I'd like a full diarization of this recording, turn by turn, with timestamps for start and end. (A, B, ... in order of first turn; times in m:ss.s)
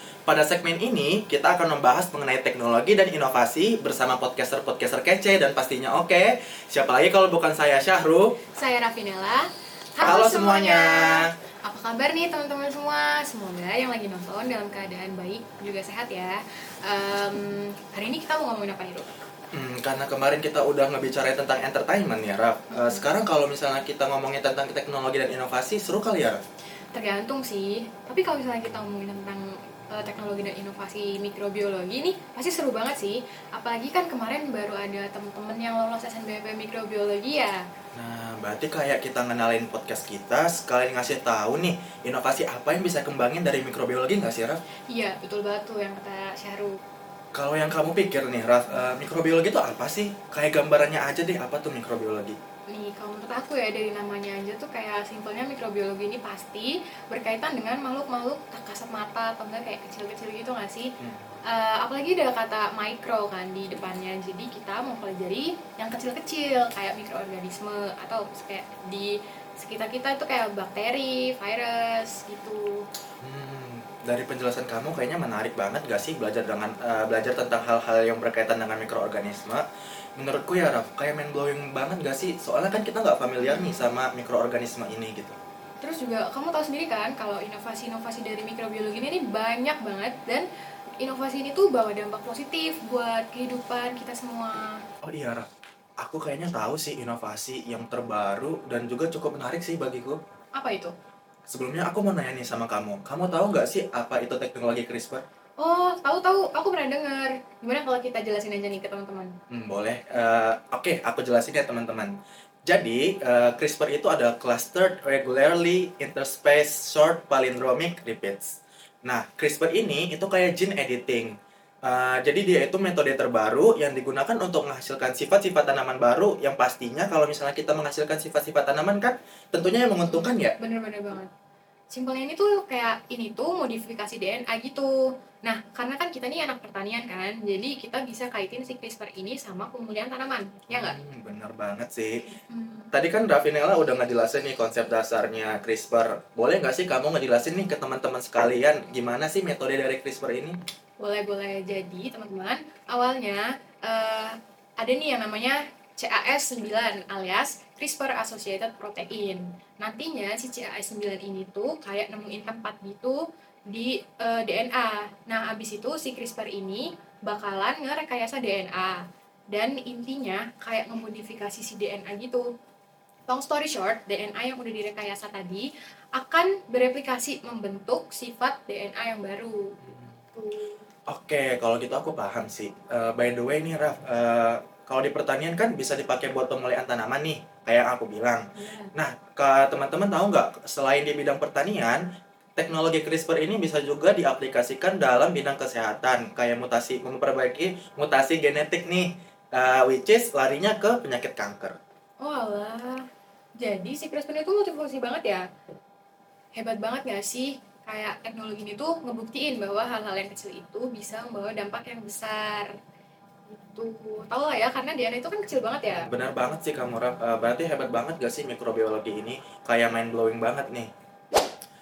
0:00.3-0:08.4 A
0:08.6-0:19.1 B
0:10.0-0:11.3 A
0:19.5-0:26.4 A
0:22.7-0:23.0 B
0:26.9-0:37.6 B
0:38.0-0:44.6 A
0:44.9-0:46.8 B
0:47.4-0:52.4 A
0:52.7-1:00.9 B
1:01.0-1:01.2 A
1:01.5-1:12.8 B
1:13.2-1:19.7 A
1:20.2-1:25.4 A
1:23.4-1:23.9 B
1:25.8-1:30.5 B
1:31.0-1:34.8 B
1:35.0-1:35.5 A
1:36.0-1:40.2 A
1:40.6-1:40.9 B
1:41.5-1:45.2 A
1:45.6-1:49.4 B
1:49.5-1:52.1 A
1:52.7-2:01.3 A
2:01.9-2:10.6 A
2:10.0-2:11.3 B
2:11.9-2:21.0 B
2:20.7-2:22.3 A
2:22.5-2:22.9 B
2:22.9-2:30.6 A
2:31.0-2:43.2 B
2:43.7-2:52.5 B
2:53.3-2:59.8 B
3:00.3-3:00.9 B
3:01.1-3:12.0 A
3:08.6-3:08.9 B
3:12.6-3:21.8 A
3:22.2-3:23.1 B
3:23.6-3:25.4 B
3:26.6-3:32.7 B
3:33.5-3:36.1 B
3:35.9-3:40.9 A